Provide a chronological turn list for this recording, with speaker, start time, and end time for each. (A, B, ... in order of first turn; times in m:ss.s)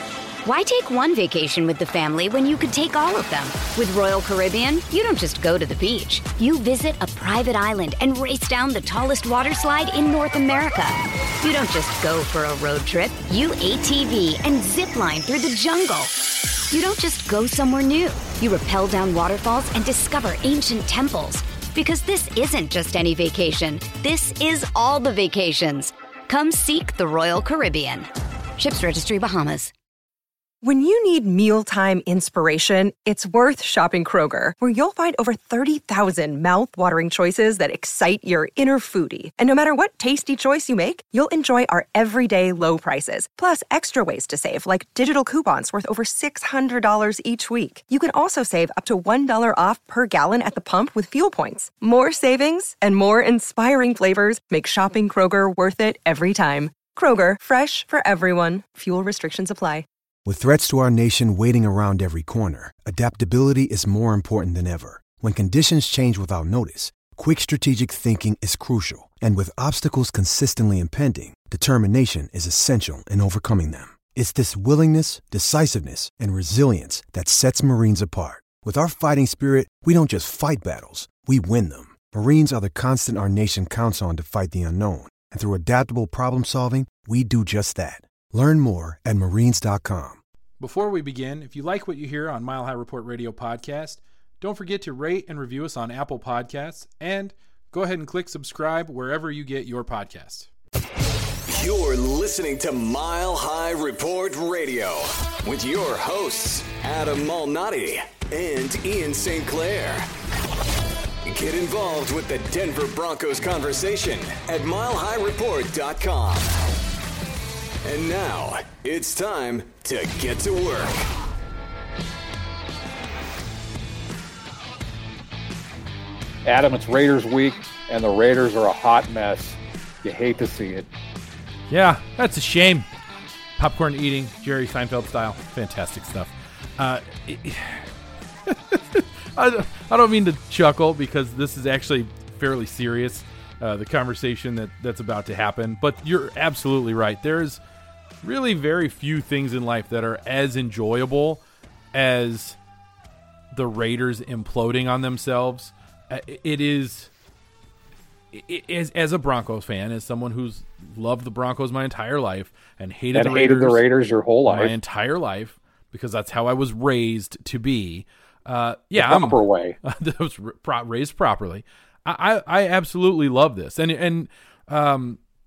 0:00.4-0:16.1 A
0:16.7-0:29.7 A
0:30.6-0:59.9 B
1:00.3-1:30.2 C
1:30.6-1:40.5 D
1:41.5-1:50.1 E
1:51.3-1:56.5 E
1:57.8-2:01.0 E
2:06.4-2:10.9 F
2:11.7-2:12.9 D
2:13.6-2:17.9 D
2:18.5-2:27.6 D
2:28.2-2:31.4 D
2:31.9-2:32.6 D
2:33.5-2:37.1 D
2:38.3-2:43.8 D
2:43.2-2:44.7 F
2:44.5-2:55.2 D
2:49.0-2:49.8 F